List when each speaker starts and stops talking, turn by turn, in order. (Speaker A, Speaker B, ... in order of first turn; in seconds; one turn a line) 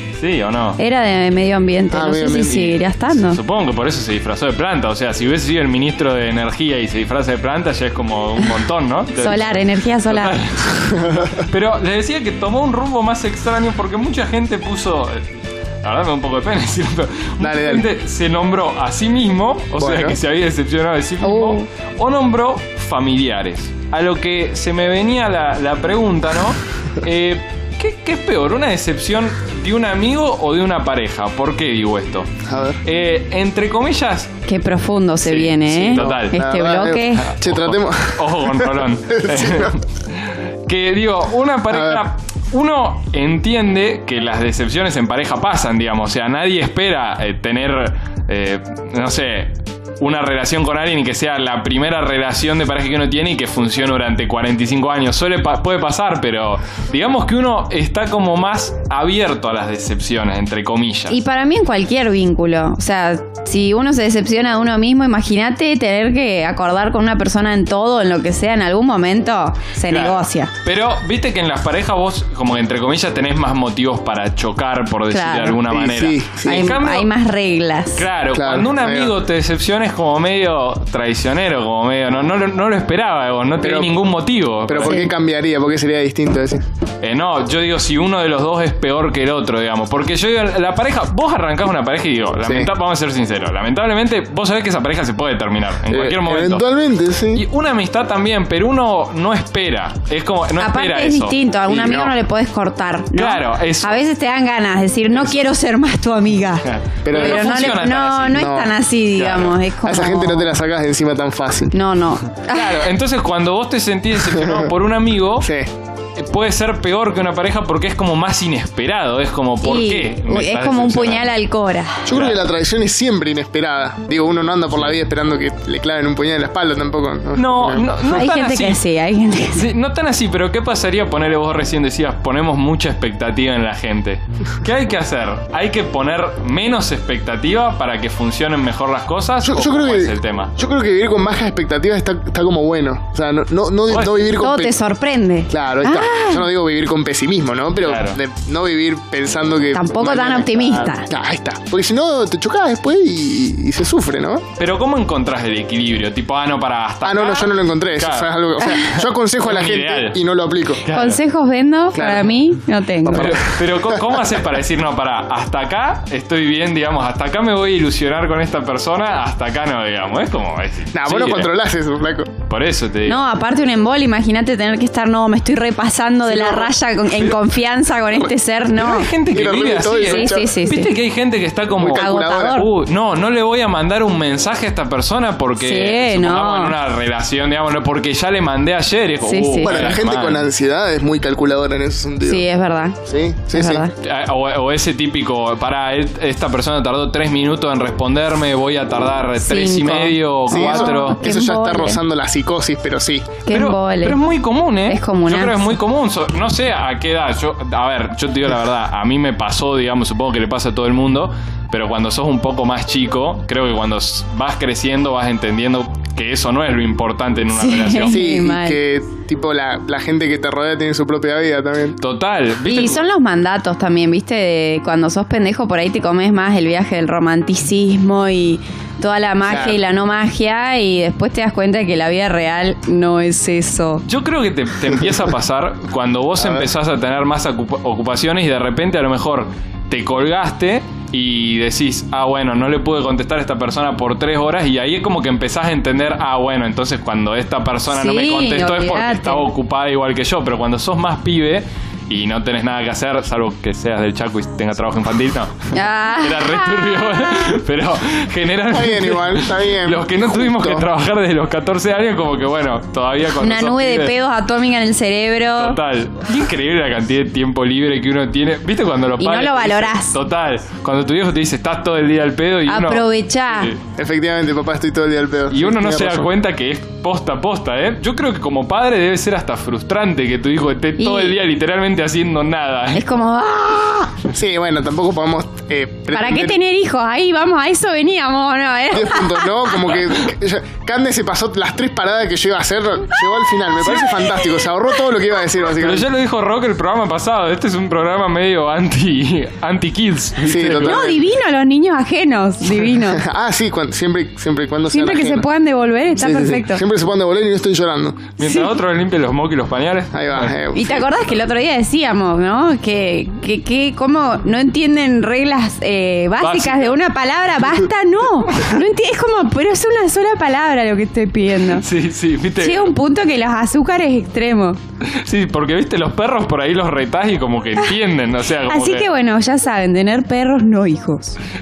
Speaker A: 0.2-0.8
Speaker B: 0.8-3.4
Speaker C: 1.9-2.7
Speaker A: 2.5-9.5
Speaker B: 9.2-10.4
Speaker A: 10.1-32.3
Speaker C: 10.9-11.4
Speaker C: 17.4-17.9
Speaker C: 19.8-20.2
Speaker B: 21.2-21.7
Speaker C: 32.5-32.8
Speaker A: 32.8-34.3
Speaker B: 34.5-37.3
Speaker A: 35.2-36.4
Speaker C: 35.9-39.8
Speaker A: 37.2-61.2
Speaker C: 41.7-42.0
Speaker B: 61.1-70.5
Speaker A: 69.9-77.1
Speaker B: 75.1-75.6
Speaker C: 75.7-76.7
Speaker B: 76.5-78.1
Speaker A: 78.0-85.0
Speaker C: 78.3-79.1
Speaker C: 83.6-84.0
Speaker C: 84.7-86.6
Speaker A: 87.0-96.7
Speaker C: 92.4-92.7
Speaker C: 95.9-97.4
Speaker A: 97.3-101.3
Speaker B: 100.6-110.5
Speaker C: 101.7-102.1
Speaker A: 103.1-104.0
Speaker A: 105.1-105.4
Speaker A: 106.6-108.4
Speaker C: 107.0-108.7
Speaker A: 109.1-109.6
Speaker C: 109.8-111.7
Speaker B: 111.7-112.9
Speaker A: 112.5-115.5
Speaker C: 114.2-114.7
Speaker C: 115.4-115.7
Speaker A: 116.2-121.4
Speaker B: 119.6-122.1
Speaker C: 122.1-128.0
Speaker A: 122.1-122.4
Speaker A: 127.3-128.8
Speaker B: 128.1-129.7
Speaker A: 129.5-140.5
Speaker C: 139.4-144.8
Speaker A: 143.9-144.3
Speaker B: 144.3-146.5
Speaker C: 145.5-154.4
Speaker A: 147.8-148.2
Speaker B: 149.7-151.1
Speaker A: 154.6-160.2
Speaker C: 157.0-160.8
Speaker A: 160.8-161.2
Speaker B: 160.9-163.4
Speaker C: 161.9-162.3
Speaker A: 163.1-171.5
Speaker C: 163.1-164.2
Speaker C: 170.9-172.3
Speaker A: 172.5-173.2
Speaker B: 173.1-179.1
Speaker C: 176.3-176.7
Speaker A: 177.2-177.4
Speaker A: 178.7-190.5
Speaker C: 179.3-180.5
Speaker B: 179.8-180.9
Speaker C: 181.8-182.6
Speaker B: 181.9-182.7
Speaker B: 185.6-186.8
Speaker B: 189.2-189.9
Speaker C: 189.6-192.4
Speaker B: 192.2-193.0
Speaker C: 193.1-193.8
Speaker B: 193.5-193.9
Speaker A: 194.0-201.2
Speaker B: 199.4-202.0
Speaker C: 200.5-203.4
Speaker B: 203.5-204.2
Speaker A: 203.5-218.2
Speaker B: 204.9-205.7
Speaker B: 217.5-218.8
Speaker C: 218.1-222.0
Speaker A: 222.0-223.0
Speaker B: 222.7-234.0
Speaker C: 229.5-229.8
Speaker A: 234.1-264.1
Speaker C: 236.4-236.7
Speaker B: 247.9-249.5
Speaker B: 255.7-257.5
Speaker C: 258.7-260.9
Speaker B: 263.4-265.8
Speaker A: 265.6-273.8
Speaker B: 269.2-270.2
Speaker B: 272.7-273.7
Speaker C: 274.0-276.3
Speaker A: 275.5-283.1
Speaker B: 281.0-281.4
Speaker B: 282.9-284.1
Speaker C: 284.3-286.6
Speaker B: 286.1-289.7
Speaker C: 288.9-296.1
Speaker B: 293.8-294.6
Speaker A: 293.9-294.2
Speaker A: 295.8-301.1
Speaker C: 300.4-301.2
Speaker B: 300.8-303.2
Speaker C: 302.9-305.5
Speaker B: 304.9-306.8
Speaker C: 306.2-308.3
Speaker A: 308.4-310.6
Speaker B: 308.4-308.7
Speaker C: 310.1-311.2
Speaker B: 310.7-321.9
Speaker A: 316.4-316.9
Speaker A: 321.7-322.9
Speaker B: 322.6-324.8
Speaker A: 325.0-329.1
Speaker B: 328.5-331.4